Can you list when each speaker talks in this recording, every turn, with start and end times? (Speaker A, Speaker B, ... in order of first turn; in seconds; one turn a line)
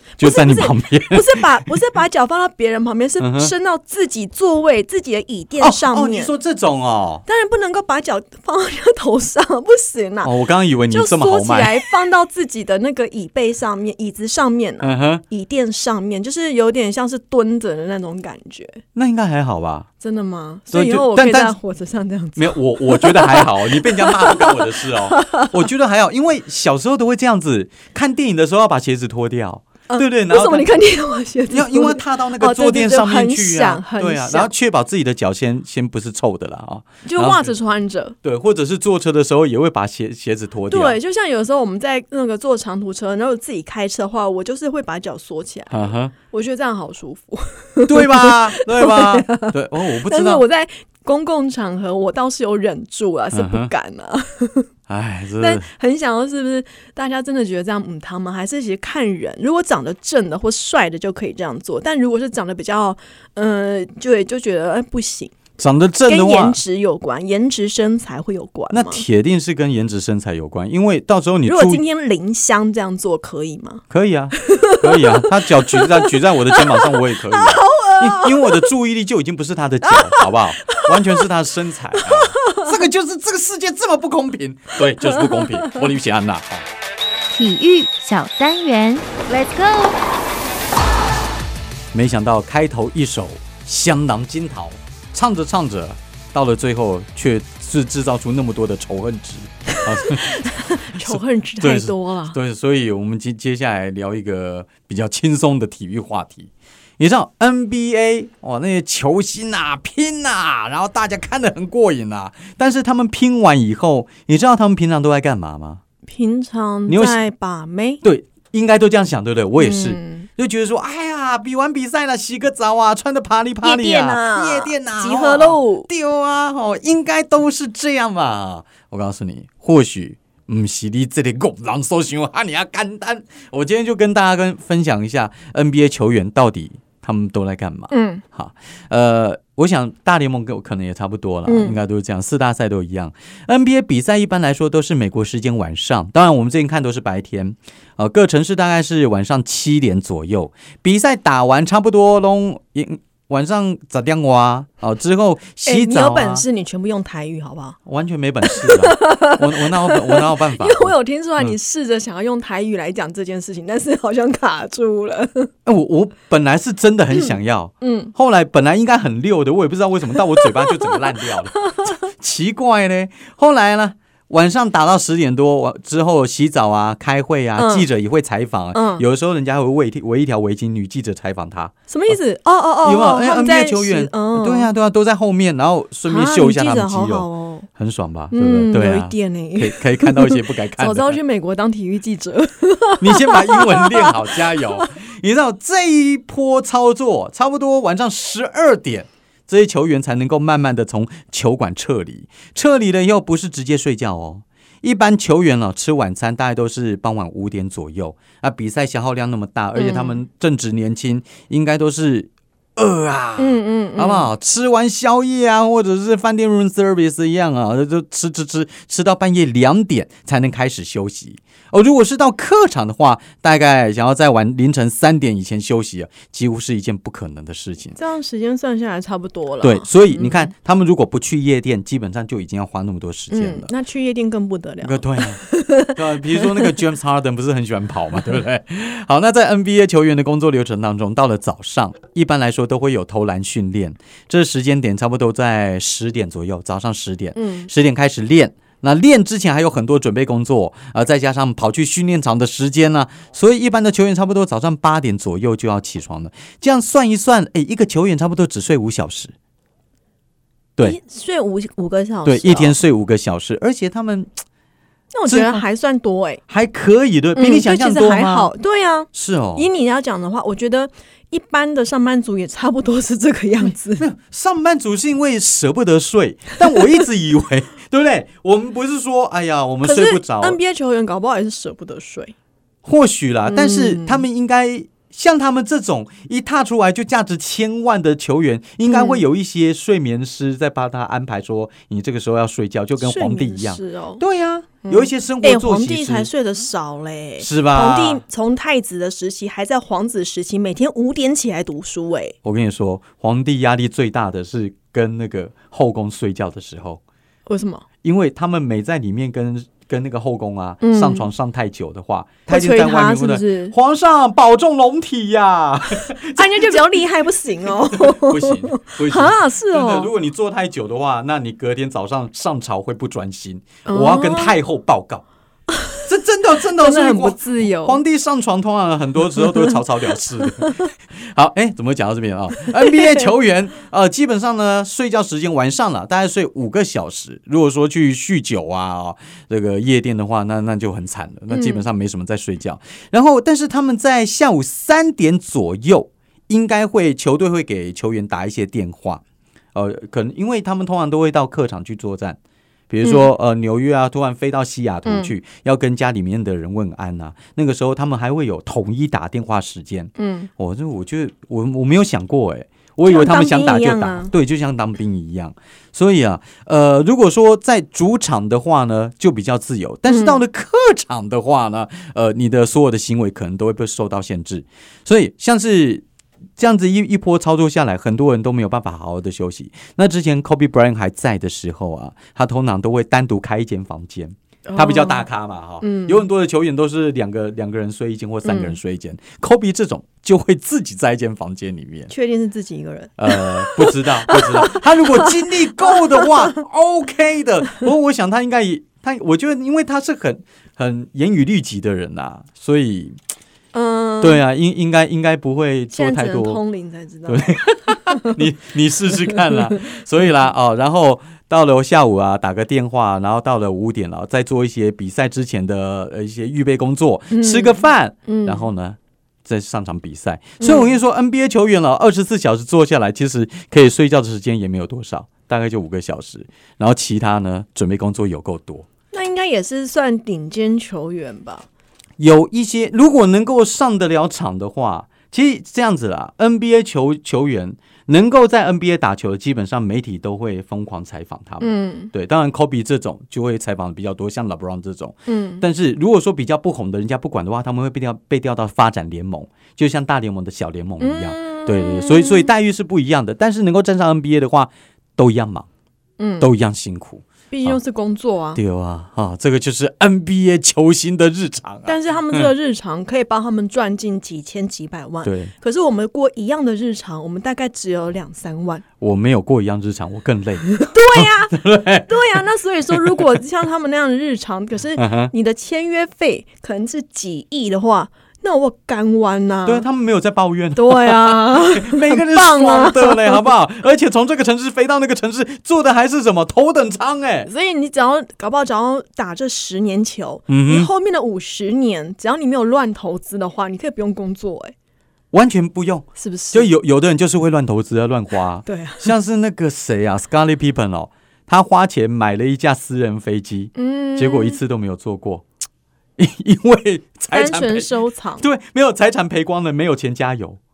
Speaker A: 0.2-1.7
Speaker B: 0.2-6.3
Speaker A: 3.2-3.5
Speaker A: 5.6-7.2
Speaker B: 7.3-10.3
Speaker A: 10.2-11.8
Speaker B: 10.9-18.8
Speaker A: 14.8-15.2
Speaker A: 18.9-19.9
Speaker B: 20.0-25.6
Speaker A: 20.7-21.6
Speaker A: 22.4-30.8
Speaker B: 29.9-34.5
Speaker A: 31.5-37.5
Speaker B: 37.0-38.2
Speaker A: 38.2-41.0
Speaker B: 40.7-54.7
Speaker A: 45.7-46.1
Speaker A: 47.9-50.4
Speaker A: 53.3-53.7
Speaker A: 54.9-55.7
Speaker B: 55.4-65.4
Speaker A: 65.6-66.6
Speaker B: 66.1-69.0
Speaker A: 68.7-71.8
Speaker B: 71.5-73.8
Speaker A: 73.9-86.7
Speaker B: 74.4-78.7
Speaker B: 79.9-81.2
Speaker B: 82.0-82.8
Speaker B: 85.0-85.8
Speaker C: 87.3-90.0
Speaker A: 91.9-100.4
Speaker B: 99.9-102.4
Speaker A: 101.0-115.8
Speaker B: 116.1-118.0
Speaker A: 116.9-117.2
Speaker A: 118.0-156.4
Speaker B: 119.6-120.3
Speaker B: 123.6-125.9
Speaker B: 137.9-138.2
Speaker B: 141.5-141.8
Speaker B: 155.7-157.8
Speaker A: 157.9-161.6
Speaker B: 158.4-165.5
Speaker A: 165.7-182.2
Speaker B: 167.1-168.1
Speaker B: 170.4-171.9
Speaker B: 177.6-177.9
Speaker B: 178.7-179.1
Speaker B: 181.9-184.7
Speaker A: 182.8-191.2
Speaker B: 186.1-187.7
Speaker B: 188.3-194.8
Speaker A: 193.0-228.0
Speaker B: 209.8-210.2
Speaker B: 213.4-214.3
Speaker B: 228.0-230.5
Speaker A: 229.6-233.7
Speaker B: 233.3-236.7
Speaker A: 234.8-259.3
Speaker B: 247.3-247.7
Speaker B: 260.8-262.8
Speaker A: 262.2-264.4
Speaker B: 265.1-266.4
Speaker A: 265.3-265.6
Speaker A: 266.5-268.5
Speaker B: 267.4-274.1
Speaker A: 269.1-269.7
Speaker A: 274.0-280.6
Speaker B: 279.8-282.4
Speaker A: 282.8-296.3
Speaker B: 283.5-284.3
Speaker B: 288.9-289.2
Speaker B: 293.0-294.2
Speaker B: 294.8-302.4
Speaker A: 297.4-298.2
Speaker A: 302.4-307.0
Speaker B: 307.5-307.9
Speaker A: 308.0-316.8
Speaker B: 310.8-311.3
Speaker B: 312.5-313.8
Speaker B: 316.1-320.1
Speaker A: 317.9-325.2
Speaker B: 323.9-324.6
Speaker B: 325.7-326.0
Speaker A: 326.0-349.2
Speaker B: 326.6-328.0
Speaker B: 329.4-329.8
Speaker B: 330.5-330.9
Speaker B: 332.6-333.3
Speaker B: 341.5-341.9
Speaker A: 349.8-352.4
Speaker A: 352.9-376.1
Speaker B: 353.0-353.3
Speaker B: 355.1-355.3
Speaker B: 360.2-360.5
Speaker B: 363.0-364.3
Speaker B: 370.1-370.4
Speaker A: 376.6-392.1
Speaker B: 384.7-385.3
Speaker B: 385.8-386.2
Speaker B: 388.4-388.8
Speaker B: 392.1-396.6
Speaker A: 393.2-403.2
Speaker B: 403.7-404.4
Speaker A: 404.2-406.6
Speaker B: 405.9-408.3
Speaker A: 407.3-428.9
Speaker B: 409.4-409.6
Speaker B: 417.3-418.6
Speaker B: 420.6-421.0
Speaker B: 429.1-431.7
Speaker A: 432.2-455.7
Speaker B: 441.6-442.1
Speaker B: 445.3-445.6
Speaker B: 451.0-452.5
Speaker B: 456.2-456.5
Speaker A: 456.4-457.8
Speaker B: 457.5-458.6
Speaker A: 458.6-462.5
Speaker B: 461.9-468.8
Speaker A: 465.2-465.5
Speaker A: 469.0-472.4
Speaker B: 470.8-479.9
Speaker A: 472.9-473.2
Speaker A: 475.0-475.3
Speaker A: 479.7-487.5
Speaker B: 480.8-483.5
Speaker B: 487.5-494.8
Speaker A: 490.5-490.9
Speaker A: 495.3-505.4
Speaker B: 496.2-496.7
Speaker B: 498.6-499.1
Speaker B: 503.8-504.6
Speaker A: 506.2-510.6
Speaker B: 507.3-508.4